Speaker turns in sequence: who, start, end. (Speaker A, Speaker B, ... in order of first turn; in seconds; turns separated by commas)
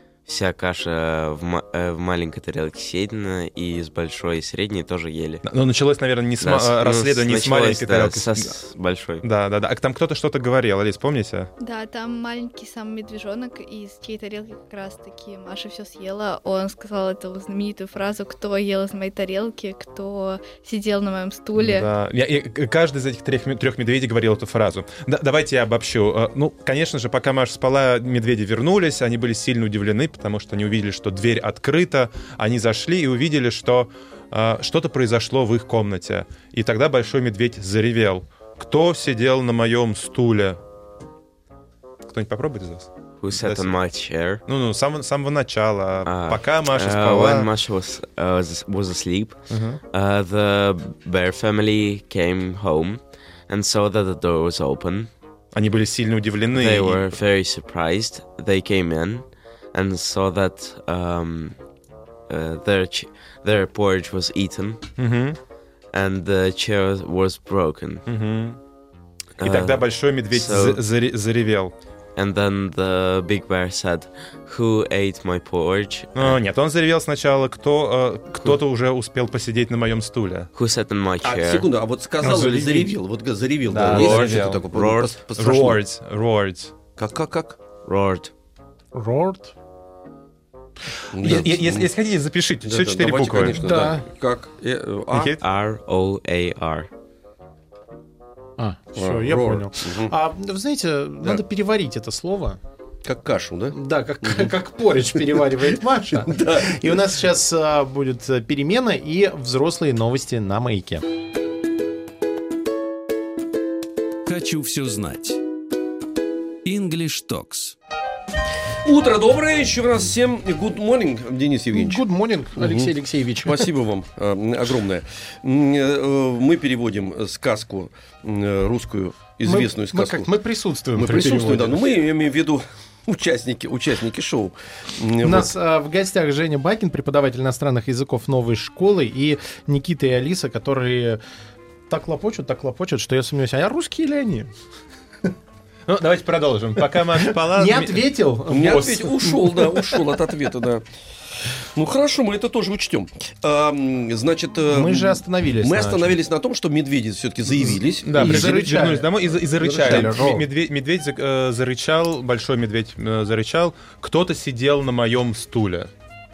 Speaker A: 0.2-5.4, Speaker B: 5.4-8.5, Speaker A: 6.4-9.2, Speaker B: 9.2-11.5, Speaker C: 11.6-21.9, Speaker B: 21.6-40.6, Speaker B: 42.1-43.7, Speaker A: 43.2-44.4, Speaker B: 44.5-47.5, Speaker A: 46.0-49.4, Speaker B: 49.5-49.8, Speaker A: 49.9-55.1, Speaker B: 55.5-57.1, Speaker A: 56.5-61.5, Speaker A: 62.3-64.9, Speaker B: 65.0-65.4, Speaker A: 65.9-68.0, Speaker B: 68.0-68.6, Speaker A: 69.4-70.8, Speaker B: 69.4-71.7, Speaker A: 72.2-76.4, Speaker B: 76.2-80.5, Speaker A: 80.5-81.7, Speaker D: 81.2-85.8, Speaker B: 82.2-83.0, Speaker E: 83.7-84.0, Speaker B: 83.8-84.6, Speaker A: 83.8-85.2, Speaker B: 85.4-86.7, Speaker D: 87.0-87.6, Speaker A: 87.8-88.3, Speaker E: 88.9-89.5, Speaker D: 91.1-91.9, Speaker B: 91.2-93.6, Speaker D: 92.6-95.3, Speaker E: 93.6-94.0, Speaker B: 95.1-95.4, Speaker A: 95.4-96.9, Speaker E: 98.6-102.6, Speaker D: 99.0-100.1, Speaker D: 103.0-104.5, Speaker E: 103.7-111.0, Speaker D: 106.1-106.8, Speaker F: 114.2-115.4, Speaker F: 116.6-117.8, Speaker D: 118.8-122.0, Speaker E: 121.7-123.7, Speaker D: 122.6-122.9, Speaker D: 123.4-130.3, Speaker E: 129.4-131.8, Speaker D: 130.9-135.5, Speaker E: 135.2-141.2, Speaker E: 141.9-144.5, Speaker B: 145.9-148.1, Speaker E: 147.1-150.0, Speaker D: 148.5-150.8, Speaker D: 151.7-158.7, Speaker E: 154.7-156.2, Speaker E: 157.6-159.1, Speaker B: 158.0-165.9, Speaker D: 159.6-160.2, Speaker E: 159.6-160.5